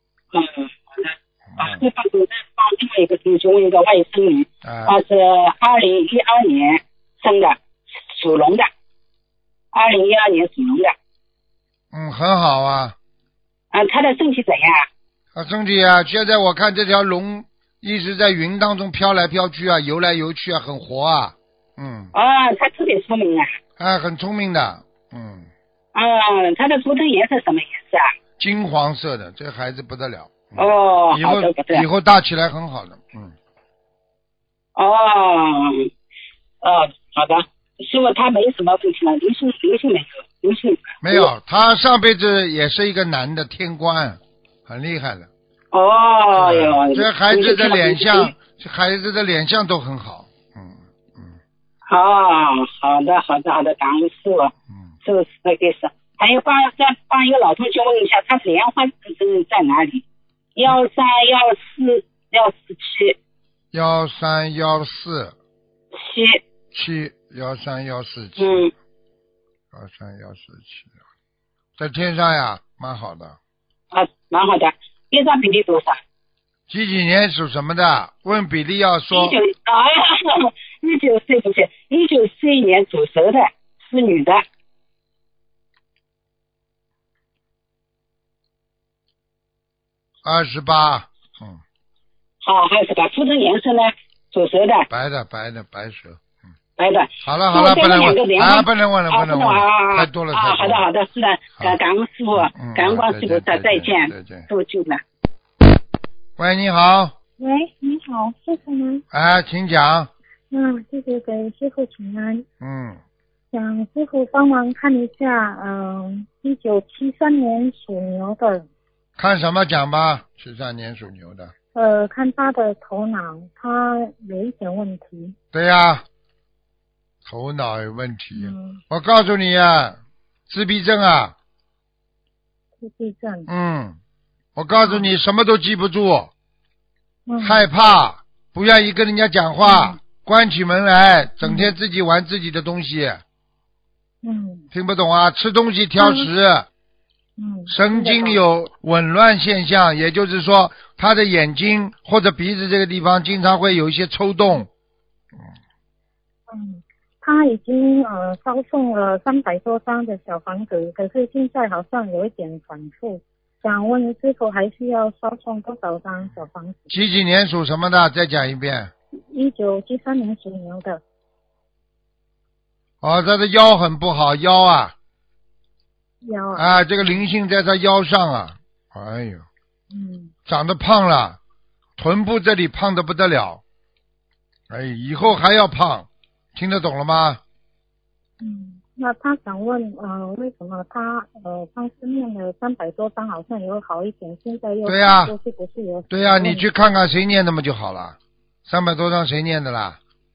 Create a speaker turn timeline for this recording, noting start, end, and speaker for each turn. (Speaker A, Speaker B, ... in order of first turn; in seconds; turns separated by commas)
Speaker A: 0.3-8.7, Speaker B: 1.5-1.8, Speaker B: 4.6-5.0, Speaker A: 9.7-10.9, Speaker B: 11.9-12.9, Speaker A: 13.7-14.8, Speaker B: 15.3-22.1, Speaker A: 22.1-23.5, Speaker B: 23.8-25.5, Speaker A: 25.9-28.1, Speaker B: 28.4-33.3, Speaker A: 30.6-31.9, Speaker A: 34.8-35.9, Speaker A: 36.6-41.3, Speaker B: 41.0-45.3, Speaker A: 45.7-48.3, Speaker B: 46.3-51.4, Speaker A: 51.9-54.5, Speaker A: 55.0-60.0, Speaker A: 60.5-63.2, Speaker B: 63.7-65.3, Speaker A: 65.9-66.4, Speaker B: 66.7-68.7, Speaker A: 68.4-68.7, Speaker B: 69.7-70.9, Speaker B: 71.8-73.4, Speaker A: 73.9-76.0, Speaker B: 76.7-79.4, Speaker A: 79.1-84.4, Speaker B: 90.2-91.6, Speaker A: 92.4-94.9, Speaker B: 94.9-96.2, Speaker A: 96.8-105.0, Speaker B: 97.2-100.8, Speaker B: 102.3-104.5, Speaker B: 106.4-107.1, Speaker C: 107.4-109.0, Speaker B: 109.1-110.1, Speaker C: 110.5-112.5, Speaker B: 112.6-113.0, Speaker C: 113.5-118.7, Speaker B: 119.2-121.5, Speaker C: 121.7-125.3, Speaker B: 125.5-126.0, Speaker B: 127.2-130.0, Speaker C: 128.3-128.8, Speaker B: 130.5-131.3, Speaker C: 132.8-133.5, Speaker B: 133.5-134.0, Speaker B: 134.6-136.3, Speaker C: 134.8-135.1, Speaker C: 137.3-137.7, Speaker B: 137.4-143.2, Speaker C: 139.6-140.0, Speaker C: 141.4-141.7, Speaker C: 144.2-144.7, Speaker B: 144.7-146.7, Speaker C: 146.0-146.3, Speaker C: 147.4-148.4, Speaker B: 147.7-154.7, Speaker C: 156.5-166.9, Speaker B: 166.9-168.9, Speaker C: 169.3-171.0, Speaker B: 173.0-174.9, Speaker C: 176.2-176.8, Speaker B: 176.5-179.4, Speaker C: 179.9-180.3, Speaker B: 180.5-181.4, Speaker B: 182.0-183.6, Speaker B: 184.7-187.4, Speaker C: 188.4-196.7, Speaker B: 194.8-195.3, Speaker B: 196.1-200.0